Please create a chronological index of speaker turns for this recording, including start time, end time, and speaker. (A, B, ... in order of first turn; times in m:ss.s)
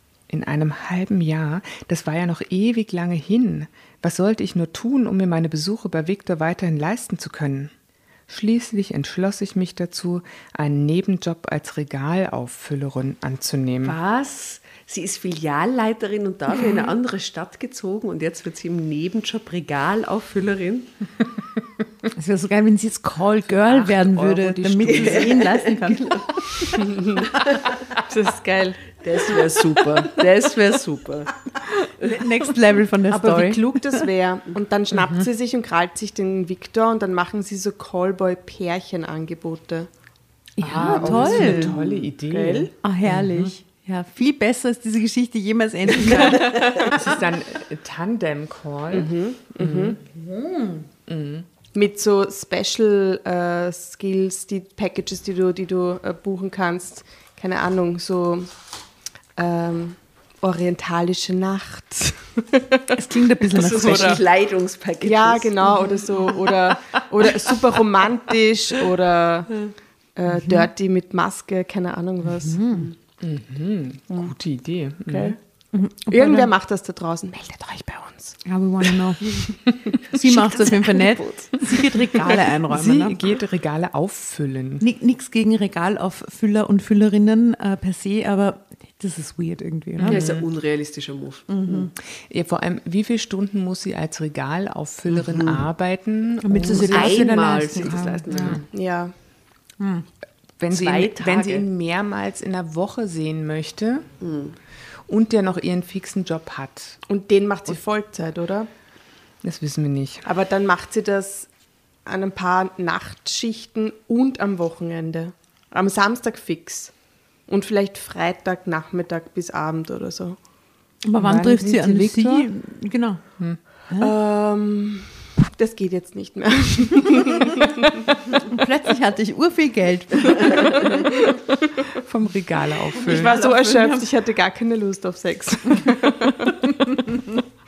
0:00.3-0:07.7 A
0:08.3-0:14.0 A
0:13.8-0:20.9 B
0:22.1-0:26.1 C
0:23.4-0:25.5 A
0:24.9-0:26.8 B
0:26.7-0:27.3 D
0:27.3-0:27.8 B
0:28.0-0:29.0 D
0:29.0-0:31.4 B
0:31.7-0:34.0 C
0:33.1-0:39.9 D
0:35.0-0:35.2 A
0:40.6-0:41.7 C
0:40.6-0:43.5 A
0:40.8-0:42.7 D
0:42.8-0:46.9 C
0:46.0-0:47.1 D
0:46.9-0:50.0 A
0:48.9-0:50.0 D
0:50.0-0:50.9 C
0:51.1-0:51.5 A
0:51.7-0:58.5 D
0:59.4-1:02.8 D
1:02.9-1:04.2 C
1:03.5-1:06.0 B
1:03.8-1:04.2 D
1:05.0-1:12.6 D
1:12.4-1:12.9 C
1:13.2-1:15.4 A
1:15.1-1:15.4 D
1:15.7-1:16.5 C
1:16.1-1:18.4 D
1:18.4-1:19.3 C
1:20.1-1:23.2 C
1:20.2-1:21.4 B
1:22.7-1:24.8 A
1:24.8-1:30.2 C
1:30.0-1:30.4 A
1:30.0-1:31.9 B
1:31.5-1:31.9 C
1:32.1-1:38.6 A
1:35.1-1:35.6 B
1:36.4-1:38.6 C
1:36.9-1:38.6 B
1:38.7-1:39.1 D
1:39.8-1:40.0 C
1:40.6-1:44.1 A
1:40.7-1:41.6 B
1:44.2-1:44.6 B
1:45.1-1:47.0 A
1:47.1-1:48.7 D
1:49.4-1:50.2 A
1:50.2-1:51.5 D
1:52.0-1:56.9 D
1:57.5-2:00.4 D
2:01.0-2:03.2 C
2:01.2-2:02.5 A
2:04.0-2:08.2 D
2:08.5-2:10.9 C
2:11.9-2:13.4 A
2:13.0-2:16.5 D
2:13.1-2:14.0 C